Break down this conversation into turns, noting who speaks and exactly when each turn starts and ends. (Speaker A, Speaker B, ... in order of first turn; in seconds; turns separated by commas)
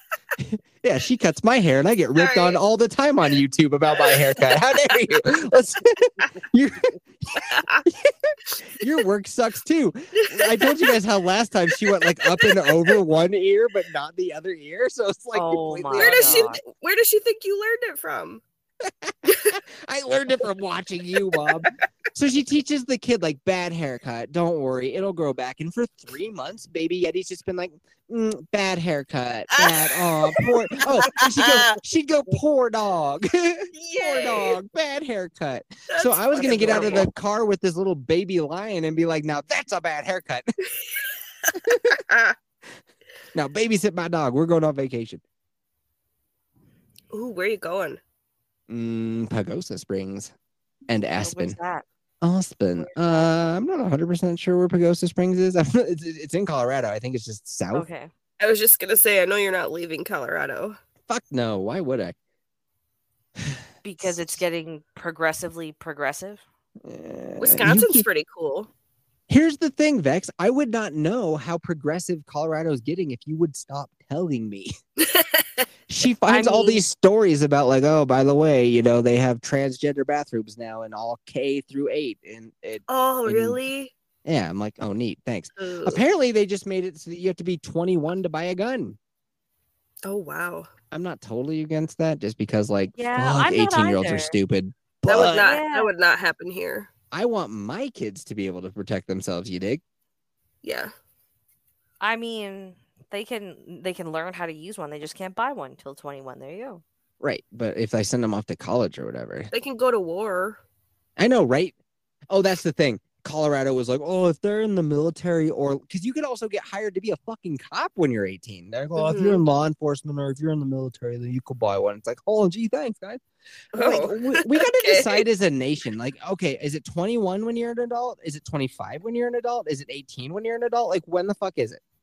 Speaker A: 0.4-16.5, Speaker B: 2.2-2.6, Speaker B: 4.1-4.4, Speaker B: 7.3-7.8, Speaker B: 10.2-10.9, Speaker B: 11.8-12.9, Speaker C: 15.3-16.6, Speaker B: 15.9-18.4, Speaker A: 18.9-40.6, Speaker B: 19.3-19.6, Speaker B: 21.4-21.7, Speaker B: 29.5-30.5, Speaker B: 31.3-31.7, Speaker B: 33.7-34.6, Speaker B: 35.9-37.1, Speaker C: 36.4-37.1, Speaker B: 40.8-41.5, Speaker A: 41.7-42.0, Speaker B: 42.1-42.4, Speaker A: 43.3-45.2, Speaker B: 47.1-48.0, Speaker A: 48.7-50.3, Speaker A: 50.9-51.6, Speaker C: 51.2-51.8, Speaker A: 52.2-57.9, Speaker C: 52.8-53.3, Speaker C: 57.7-58.1, Speaker B: 58.4-60.8, Speaker A: 61.1-62.1, Speaker A: 63.5-64.4, Speaker C: 63.8-66.4, Speaker A: 66.8-68.0, Speaker B: 67.4-68.7, Speaker A: 69.3-74.8, Speaker B: 75.0-75.7, Speaker A: 75.9-83.6, Speaker C: 76.3-76.8, Speaker B: 82.9-83.9, Speaker A: 84.2-89.0, Speaker B: 85.6-86.0, Speaker B: 90.0-90.7, Speaker A: 90.9-95.5, Speaker C: 93.0-94.4, Speaker B: 95.1-96.9, Speaker C: 95.3-95.9, Speaker A: 97.1-99.8, Speaker B: 100.6-100.9, Speaker C: 102.0-106.8, Speaker A: 107.2-109.5, Speaker B: 109.5-110.6, Speaker A: 111.2-111.7, Speaker A: 112.3-123.2, Speaker B: 119.0-119.5, Speaker B: 123.7-125.2, Speaker A: 123.7-131.8